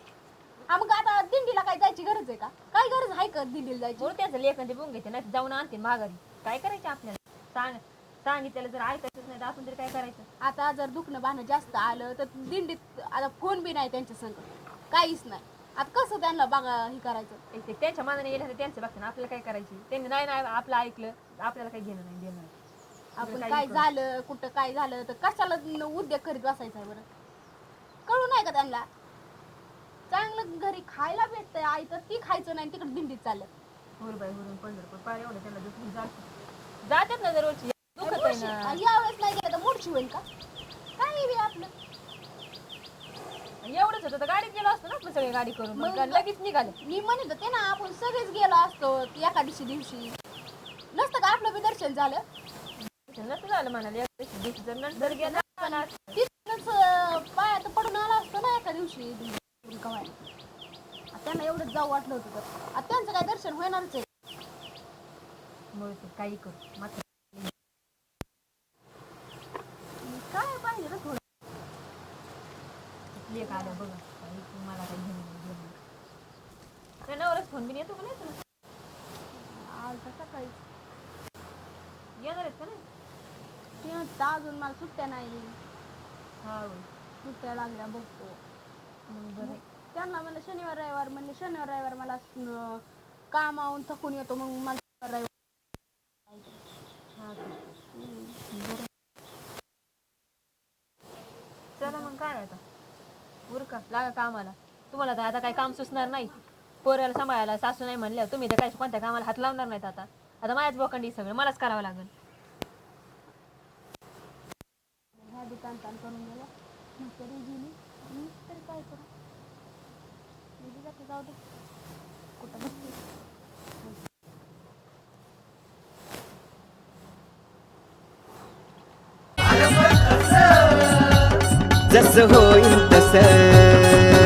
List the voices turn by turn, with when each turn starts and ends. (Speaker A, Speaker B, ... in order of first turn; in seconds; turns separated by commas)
Speaker A: 0.7-4.1, Speaker B: 4.0-10.3, Speaker A: 10.4-17.4, Speaker B: 17.5-22.5, Speaker A: 23.2-27.1, Speaker B: 23.2-23.9, Speaker A: 28.1-28.9, Speaker A: 30.1-33.5, Speaker B: 34.0-36.3, Speaker B: 36.8-38.6, Speaker A: 38.0-40.2, Speaker A: 41.0-41.7, Speaker B: 43.6-46.8, Speaker A: 45.8-46.2, Speaker A: 46.8-50.1, Speaker A: 50.9-52.2, Speaker B: 52.8-56.1, Speaker A: 55.0-60.1, Speaker A: 61.1-64.0, Speaker B: 65.7-67.5, Speaker A: 70.0-71.2, Speaker B: 73.1-75.8, Speaker A: 73.4-73.9, Speaker B: 77.1-78.4, Speaker A: 79.3-80.5, Speaker B: 82.2-82.8, Speaker A: 83.8-85.5, Speaker B: 86.4-86.9, Speaker A: 87.2-88.4, Speaker B: 89.1-89.6, Speaker A: 89.4-95.3, Speaker A: 96.3-96.6, Speaker B: 97.2-97.5, Speaker A: 97.9-98.8, Speaker B: 101.8-102.6, Speaker B: 103.5-106.3, Speaker B: 106.8-112.1, Speaker A: 115.2-119.1, Speaker A: 120.6-121.4, Speaker A: 122.4-123.0, Speaker C: 131.9-134.1